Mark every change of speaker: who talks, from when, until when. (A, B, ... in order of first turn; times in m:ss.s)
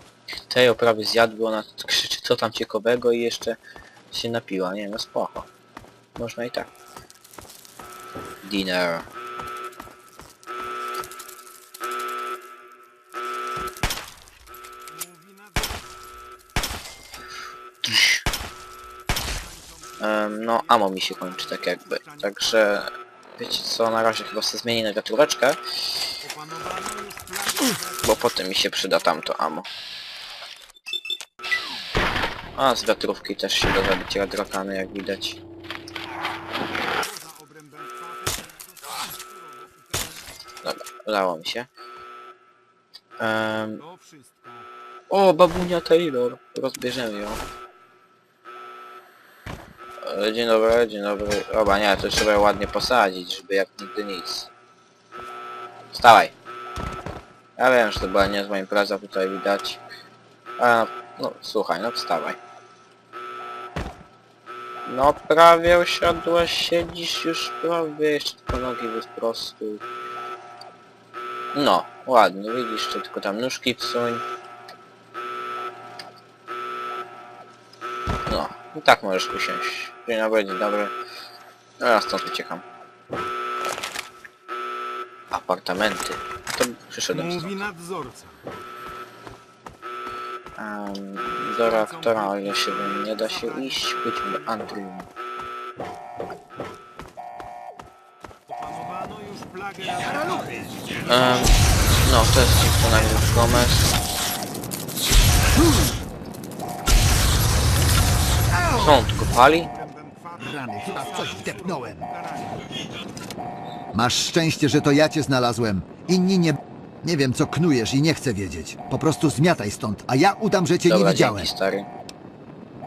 0:00.5-0:03.6 A
0:04.1-0:05.5 A
0:06.2-0:06.7 A
0:08.4-0:09.1 A
0:14.9-0:15.8 B
0:17.8-0:18.2 A
0:19.5-0:22.7 B
0:20.0-0:25.6 A
0:26.2-0:28.3 B
0:28.0-0:29.7 A
0:32.6-0:35.4 A
0:37.0-0:40.1 B
0:40.6-0:41.7 A
0:43.2-0:43.8 A
0:43.8-0:44.7 B
0:45.1-0:47.4 A
0:50.0-0:54.5 A
0:55.9-0:56.4 A
0:57.6-0:59.8 A
1:00.6-1:02.4 A
1:04.8-1:09.8 A
1:11.5-1:14.2 A
1:18.3-1:20.9 A
1:21.8-1:22.6 A
1:25.3-1:27.6 A
1:27.1-1:28.4 B
1:30.6-1:35.1 A
1:31.4-1:34.8 B
1:38.5-1:40.7 B
1:41.1-1:41.5 A
1:42.0-1:43.9 A
1:48.8-1:49.7 A
1:49.7-1:52.6 B
1:50.4-1:52.1 C
1:53.9-2:01.5 C
2:00.9-2:01.9 A